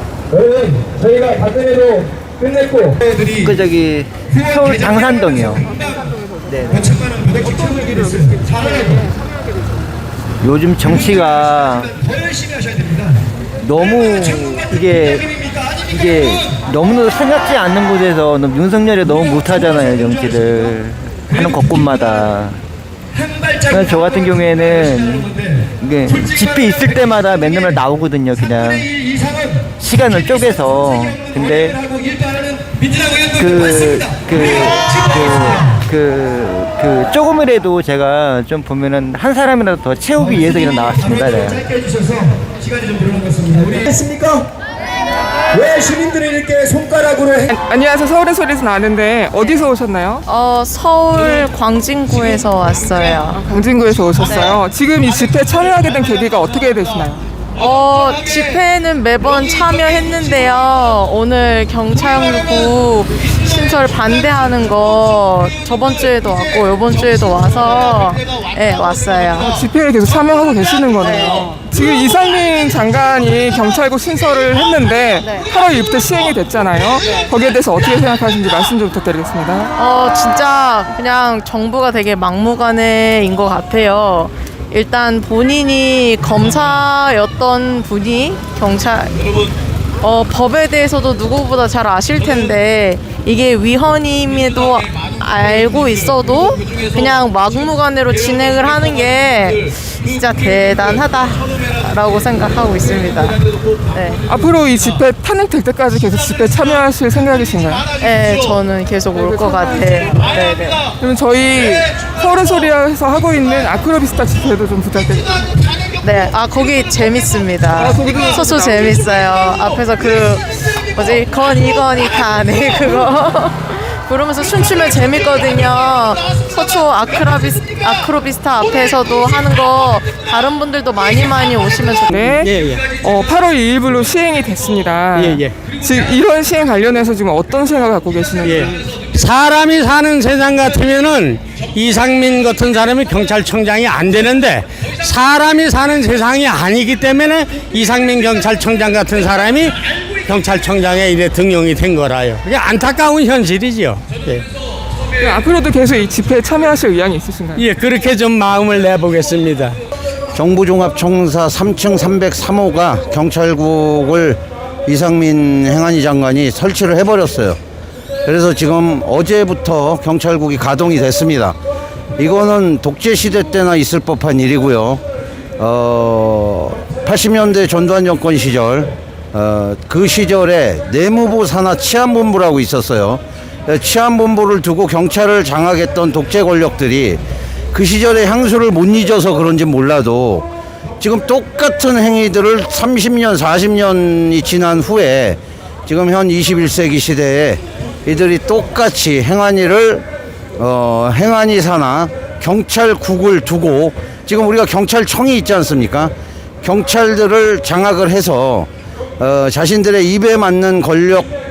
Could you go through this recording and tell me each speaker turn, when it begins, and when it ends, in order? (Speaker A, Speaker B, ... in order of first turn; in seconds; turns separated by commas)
Speaker A: 0.3-3.3, Speaker B: 3.2-5.7, Speaker B: 6.5-6.9, Speaker A: 6.9-9.0, Speaker C: 7.4-8.9, Speaker B: 10.4-11.9, Speaker A: 12.4-13.0, Speaker B: 13.6-22.6, Speaker B: 23.6-28.9, Speaker A: 29.3-29.7, Speaker B: 29.8-31.8, Speaker A: 31.7-34.2, Speaker B: 33.4-41.6, Speaker A: 41.3-44.5, Speaker A: 45.5-47.5, Speaker C: 47.5-50.2, Speaker D: 50.3-53.6, Speaker C: 53.5-57.2, Speaker D: 54.3-54.6, Speaker D: 57.5-69.5, Speaker C: 69.5-79.7, Speaker D: 71.0-71.6, Speaker D: 75.2-75.5, Speaker D: 79.8-89.1, Speaker D: 90.0-103.4, Speaker D: 103.9-104.2, Speaker C: 104.3-107.9, Speaker D: 107.9-110.9, Speaker C: 109.2-110.0, Speaker C: 110.9-115.4, Speaker D: 116.0-132.5, Speaker C: 117.8-119.3, Speaker C: 132.1-138.7, Speaker E: 132.4-132.9, Speaker E: 135.2-135.6, Speaker E: 138.4-154.4, Speaker C: 155.2-157.6, Speaker E: 157.6-159.8, Speaker F: 160.3-167.6, Speaker F: 168.3-171.6, Speaker F: 172.2-175.0, Speaker F: 175.6-187.2, Speaker F: 187.7-190.5, Speaker F: 191.0-200.1, Speaker F: 200.6-208.7, Speaker F: 209.2-211.3